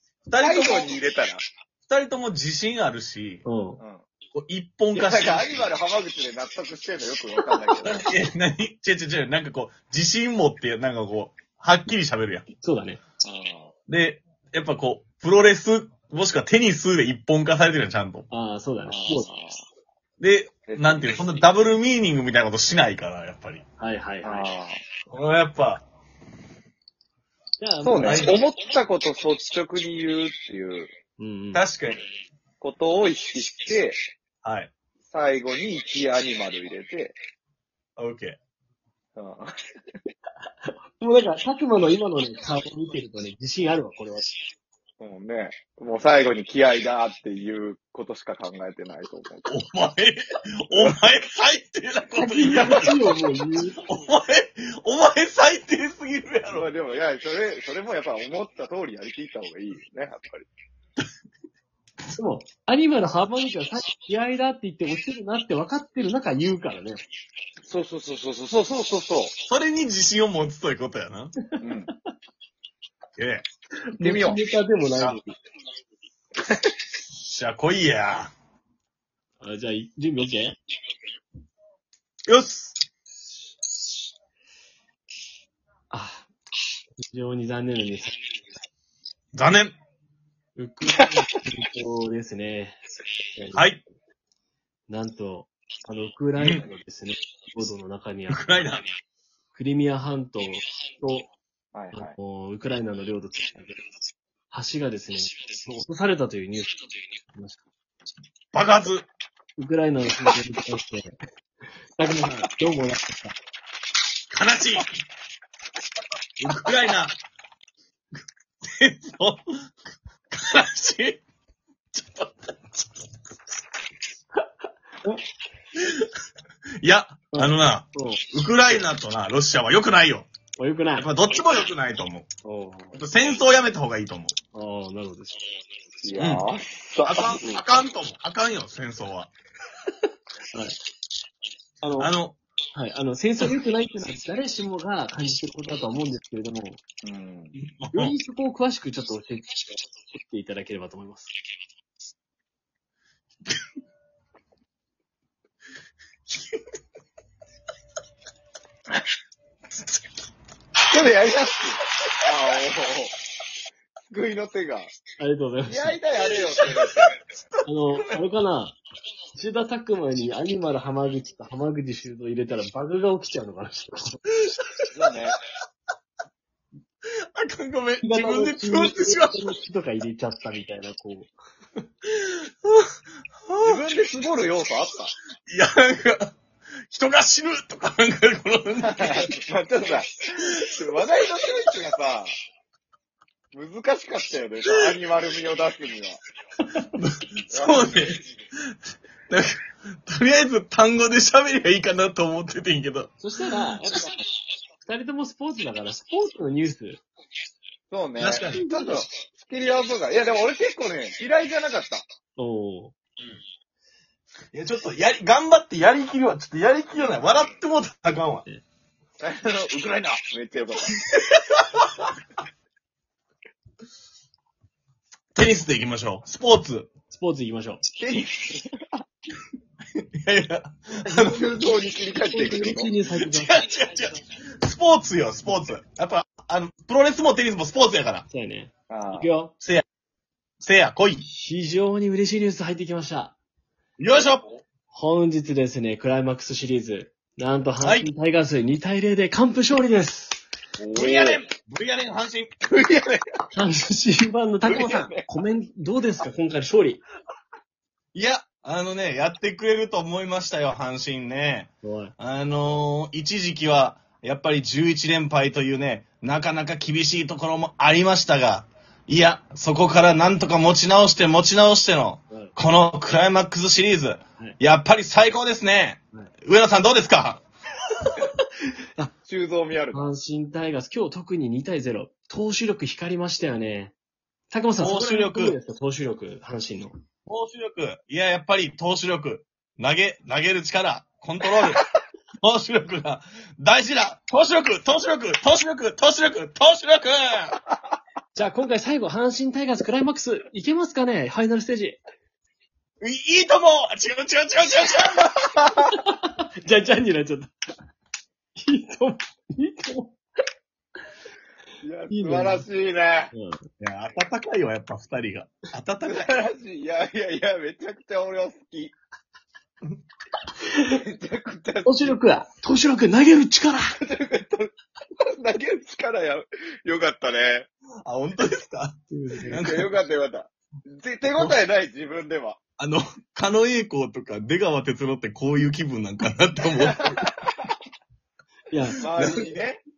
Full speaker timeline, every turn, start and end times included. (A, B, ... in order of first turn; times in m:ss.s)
0:00.2-0:01.0 A
0:00.4-0:01.4 B
0:01.8-0:03.4 A
0:03.4-0:03.8 C
0:04.3-0:05.6 A
0:04.9-0:08.0 B
0:07.8-0:12.5 A
0:12.6-0:13.0 C
0:13.2-0:13.7 B
0:13.9-0:18.3 A
0:18.3-0:19.3 C
0:18.9-0:19.7 B
0:20.2-0:23.6 A
0:20.7-0:21.5 B
0:23.8-0:24.5 C
0:24.2-0:24.8 B
0:25.1-0:25.8 A
0:27.6-0:28.3 C
0:27.8-0:30.9 B
0:28.0-0:28.4 A
0:31.2-0:31.6 C
0:31.5-0:32.0 A
0:32.6-0:34.0 B
0:34.4-0:34.7 A
0:35.0-0:37.2 B
0:38.0-0:38.4 A
0:39.2-0:39.5 B
0:41.0-0:44.2 C
0:45.0-0:49.5 B
0:49.5-0:53.0 A
0:52.2-0:53.8 C
0:52.6-0:52.9 B
0:53.8-0:56.7 A
0:56.5-1:00.5 B
1:02.2-1:07.0 C
1:07.6-1:09.3 B
1:09.5-1:11.4 A
1:11.6-1:11.9 B
1:13.2-1:13.4 A
1:13.9-1:15.4 C
1:14.0-1:14.4 B
1:17.1-1:18.3 A
1:19.4-1:20.6 C
1:22.3-1:22.8 A
1:25.9-1:26.3 C
1:27.0-1:28.1 C
1:29.3-1:29.8 A
1:30.6-1:32.8 C
1:33.3-1:33.8 C
1:33.5-1:33.8 A
1:34.9-1:38.8 C
1:36.4-1:36.6 A
1:38.3-1:38.8 A
1:39.5-1:41.3 C
1:41.7-1:42.2 B
1:41.9-1:43.8 C
1:44.5-1:46.7 C
1:47.3-1:47.6 C
1:48.5-1:49.1 A
1:49.6-1:51.1 C
1:52.0-1:53.3 C
1:54.3-1:55.0 A
1:56.4-1:57.2 A
1:58.6-1:59.4 A
2:00.3-2:01.2 A
2:01.9-2:02.8 A
2:05.8-2:06.1 A
2:06.8-2:10.3 A
2:07.3-2:08.2 C
2:10.6-2:11.1 C
2:11.0-2:12.3 A
2:12.4-2:13.0 C
2:12.9-2:14.4 A
2:14.5-2:15.4 C
2:16.0-2:17.7 B
2:16.2-2:16.4 A
2:17.0-2:19.3 A
2:21.8-2:22.1 C
2:22.0-2:22.4 A
2:22.7-2:26.8 C
2:27.0-2:27.5 B
2:27.5-2:28.2 A
2:27.9-2:31.3 C
2:36.3-2:36.6 A
2:40.9-2:43.1 B
2:44.1-2:44.9 B
2:45.2-2:46.0 C
2:45.7-2:47.4 B
2:46.3-2:47.0 A
2:47.6-2:48.8 C
2:49.3-2:54.2 C
2:54.9-2:55.4 B
2:57.3-2:59.4 A
2:58.0-3:01.3 C
3:02.1-3:02.9 A
3:03.4-3:03.8 A
3:03.6-3:05.1 B
3:05.5-3:06.4 A
3:06.9-3:09.3 A
3:08.8-3:12.3 B
3:13.5-3:16.2 B
3:16.9-3:18.3 A
3:17.5-3:18.0 B
3:19.3-3:23.1 A
3:23.2-3:24.1 C
3:24.8-3:27.0 C
3:27.9-3:32.0 B
3:28.2-3:28.6 A
3:28.5-3:29.1 C
3:32.4-3:32.9 C
3:34.5-3:38.4 A
3:39.2-3:41.0 B
3:41.3-3:41.8 A
3:45.3-3:46.9 A
3:47.1-3:47.8 C
3:48.0-3:48.8 B
3:50.0-3:51.5 A
3:51.1-3:52.9 B
3:52.3-3:53.5 C
3:53.2-3:58.2 A
3:58.3-3:59.5 C
3:58.9-3:59.3 B
4:00.6-4:01.2 A
4:01.3-4:03.4 C
4:04.0-4:04.4 A
4:04.9-4:10.4 C
4:07.8-4:08.1 A
4:10.8-4:11.4 B
4:10.9-4:13.2 A
4:13.5-4:17.0 C
4:14.6-4:15.3 B
4:18.1-4:37.4 A
4:21.8-4:22.1 C
4:39.2-4:40.1 B
4:39.9-4:43.9 C
4:44.5-4:46.9 C
4:44.8-4:45.6 A
4:47.3-4:51.8 A
4:52.4-4:57.6 A
4:58.3-5:02.0 C
5:03.0-5:05.5 A
5:05.8-5:07.5 C
5:08.6-5:10.2 C
5:11.8-5:13.3 B
5:12.1-5:12.6 C
5:13.3-5:13.6 C
5:13.8-5:16.3 A
5:16.0-5:18.9 B
5:20.8-5:22.2 B
5:21.8-5:24.0 C
5:24.0-5:24.7 B
5:25.4-5:27.7 B
5:28.0-5:29.9 A
5:29.1-5:29.6 C
5:29.5-5:32.6 B
5:31.3-5:31.6 A
5:32.8-5:37.3 A
5:38.7-5:39.0 C
5:39.0-5:39.8 B
5:39.1-5:39.5 A